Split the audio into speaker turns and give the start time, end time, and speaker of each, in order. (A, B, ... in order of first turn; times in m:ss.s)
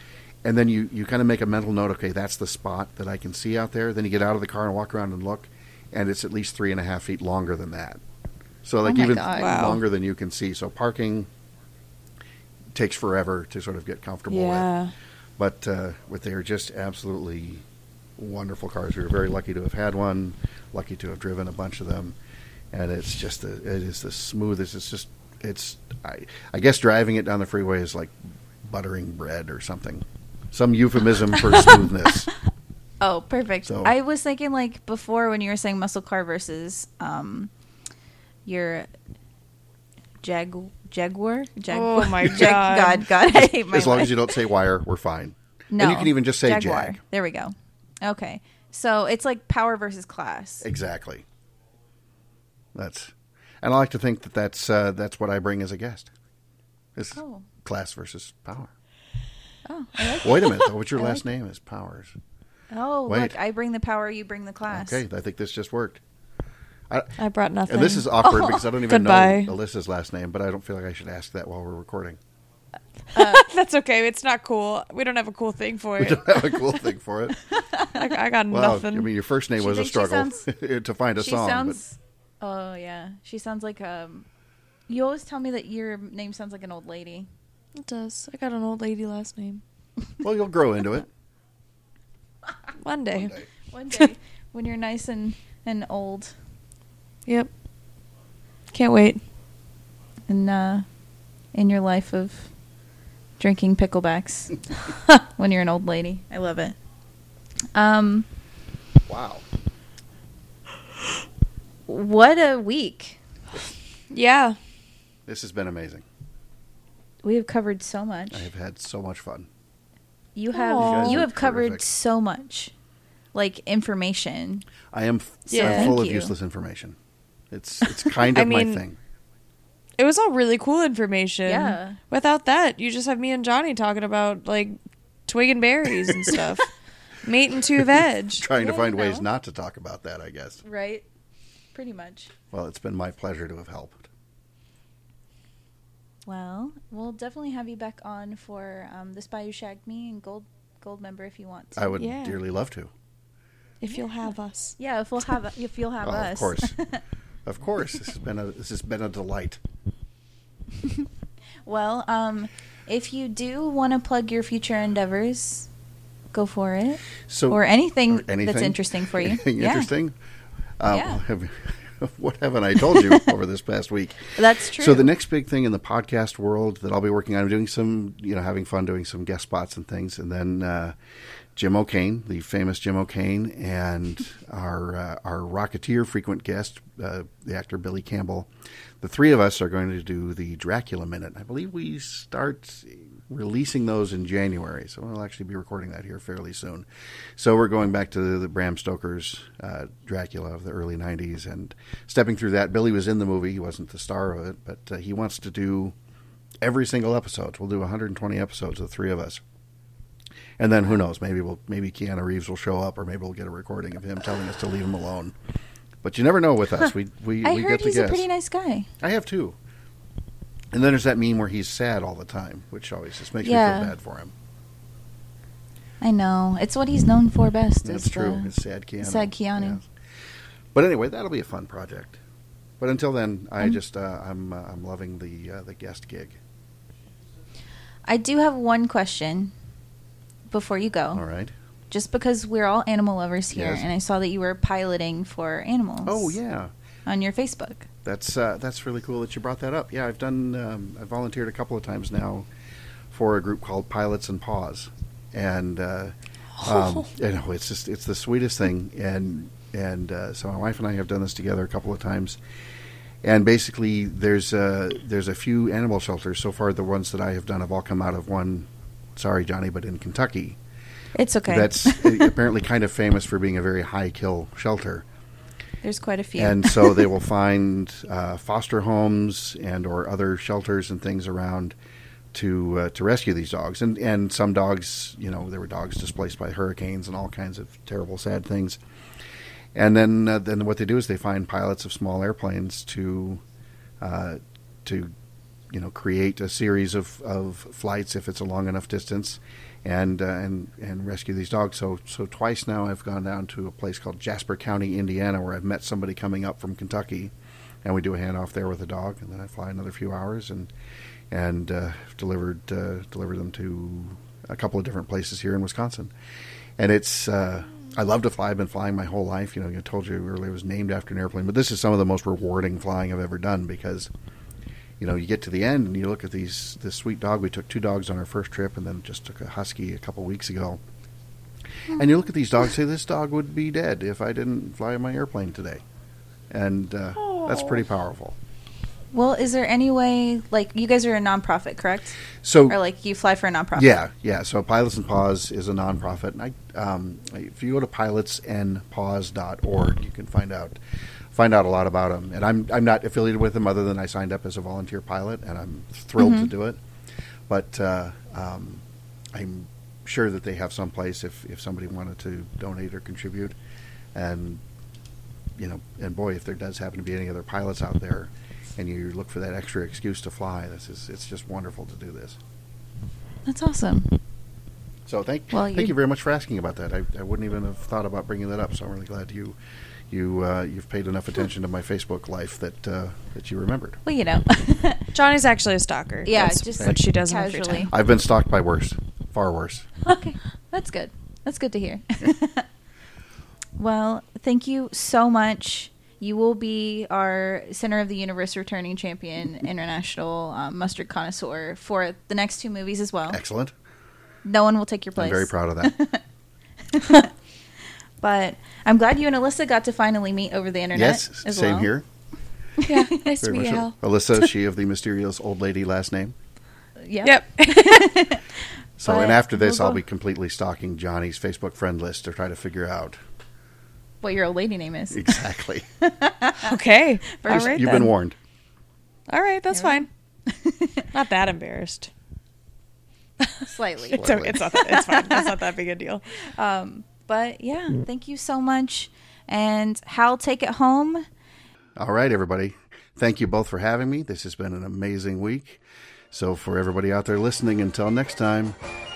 0:00.4-0:08.0 A
0:08.6-0:11.3 A
0:08.8-0:09.7 B
0:09.2-0:09.8 C
0:12.7-0:14.7 A
0:14.3-0:14.9 C
0:15.4-0:17.6 A
0:18.2-0:22.2 A
0:22.7-0:32.3 A
0:33.0-0:37.5 B
0:33.6-0:33.9 A
0:38.4-0:38.9 B
0:40.2-0:44.4 B
0:41.7-0:43.1 C
0:43.3-0:47.0 A
0:45.7-0:50.7 B
0:50.6-0:51.2 A
0:52.7-0:56.1 A
0:57.0-0:58.7 A
0:57.1-0:57.5 B
0:59.6-1:01.2 B
1:00.2-1:02.1 A
1:02.7-1:05.0 B
1:03.1-1:03.3 A
1:04.7-1:06.0 A
1:07.2-1:09.5 C
1:07.6-1:12.2 A
1:08.2-1:08.5 B
1:13.1-1:13.4 B
1:13.1-1:16.7 C
1:16.0-1:17.4 A
1:17.5-1:18.2 B
1:17.9-1:19.1 C
1:18.5-1:21.8 A
1:19.6-1:20.4 B
1:21.2-1:24.2 B
1:24.9-1:27.3 B
1:27.8-1:29.6 C
1:30.2-1:31.1 A
1:32.8-1:33.3 C
1:33.1-1:33.5 A
1:33.7-1:36.3 B
1:38.7-1:39.2 C
1:40.3-1:40.8 B
1:41.5-1:42.5 B
1:43.4-1:46.8 B
1:47.7-1:48.2 B
1:49.1-1:49.4 A
1:51.9-1:53.2 B
1:54.1-1:54.6 C
1:55.2-1:56.0 A
1:57.2-1:58.5 B
1:58.3-1:59.5 A
2:00.4-2:02.7 B
2:00.5-2:01.2 C
2:00.8-2:01.8 A
2:03.3-2:04.6 B
2:04.9-2:07.0 A
2:05.5-2:06.0 C
2:05.6-2:06.3 B
2:07.5-2:09.0 A
2:08.3-2:08.8 C
2:10.0-2:14.8 C
2:11.4-2:12.0 B
2:15.3-2:16.7 C
2:16.1-2:16.4 A
2:17.2-2:18.4 C
2:17.8-2:20.6 A
2:18.5-2:19.2 B
2:20.6-2:21.0 B
2:21.7-2:22.3 B
2:22.5-2:24.1 A
2:26.3-2:32.0 B
2:31.8-2:32.9 A
2:32.0-2:32.4 C
2:33.8-2:34.8 C
2:34.8-2:37.0 B
2:36.0-2:36.8 A
2:37.4-2:39.6 A
2:41.6-2:45.7 B
2:46.3-2:49.9 B
2:47.3-2:50.1 A
2:50.8-3:00.9 A
2:50.9-2:51.2 B
2:54.4-2:55.1 B
3:01.5-3:08.5 A
3:09.0-3:25.9 A
3:26.6-3:29.4 A
3:30.6-3:35.3 A
3:36.0-3:38.2 A
3:37.4-3:38.9 B
3:39.0-3:39.6 A
3:40.7-3:44.3 A
3:43.4-3:43.9 B
3:46.0-3:49.8 B
3:47.8-3:49.9 A
3:50.7-3:52.2 A
3:52.8-3:56.4 A
3:58.1-3:59.5 B
4:00.5-4:01.2 B
4:01.1-4:01.5 A
4:01.9-4:06.4 B
4:03.5-4:03.9 A
4:06.0-4:06.7 A
4:07.0-4:07.9 B
4:08.0-4:12.5 A
4:13.1-4:22.4 A
4:16.6-4:17.0 C
4:23.2-4:30.6 A
4:31.1-4:32.3 B
4:31.5-4:35.0 A
4:35.8-4:37.1 B
4:36.4-4:41.7 A
4:42.3-4:48.8 A
4:49.7-4:53.4 A
4:54.0-4:55.1 A
4:55.7-5:10.7 A
5:11.3-5:16.1 A
5:16.8-5:24.1 A
5:25.0-5:30.8 A
5:31.9-5:35.8 A
5:36.5-5:38.4 A
5:39.1-5:44.0 B
5:42.4-5:42.8 A
5:43.8-5:50.8 A
5:51.3-5:56.8 A
5:56.2-5:56.5 B
5:57.5-6:03.5 A
6:04.1-6:04.6 A
6:05.6-6:12.4 A
6:13.4-6:14.2 B
6:15.1-6:19.6 A
6:15.5-6:15.9 B
6:20.1-6:24.0 A
6:24.0-6:25.1 B
6:25.1-6:27.9 C
6:26.2-6:27.9 B
6:26.7-6:27.0 A
6:27.9-6:29.9 A
6:30.0-6:32.6 B
6:33.8-6:43.4 B
6:43.3-6:43.7 A
6:44.4-6:46.2 B
6:45.2-6:45.9 A
6:46.9-6:47.3 B
6:48.2-6:51.9 B
6:50.9-6:52.0 A
6:52.8-6:53.3 B
6:52.8-6:54.0 C
6:53.4-6:56.3 A
6:57.0-7:00.0 B
6:57.2-6:58.2 C
6:59.0-7:03.2 A
7:04.2-7:06.7 B
7:05.1-7:05.8 A
7:06.6-7:08.1 C
7:07.3-7:08.1 B
7:07.5-7:08.4 A
7:09.3-7:10.1 C
7:09.7-7:11.1 B
7:11.1-7:12.1 C
7:13.4-7:16.2 C
7:13.6-7:15.6 B
7:14.1-7:14.6 A
7:16.5-7:21.2 B
7:22.0-7:28.8 A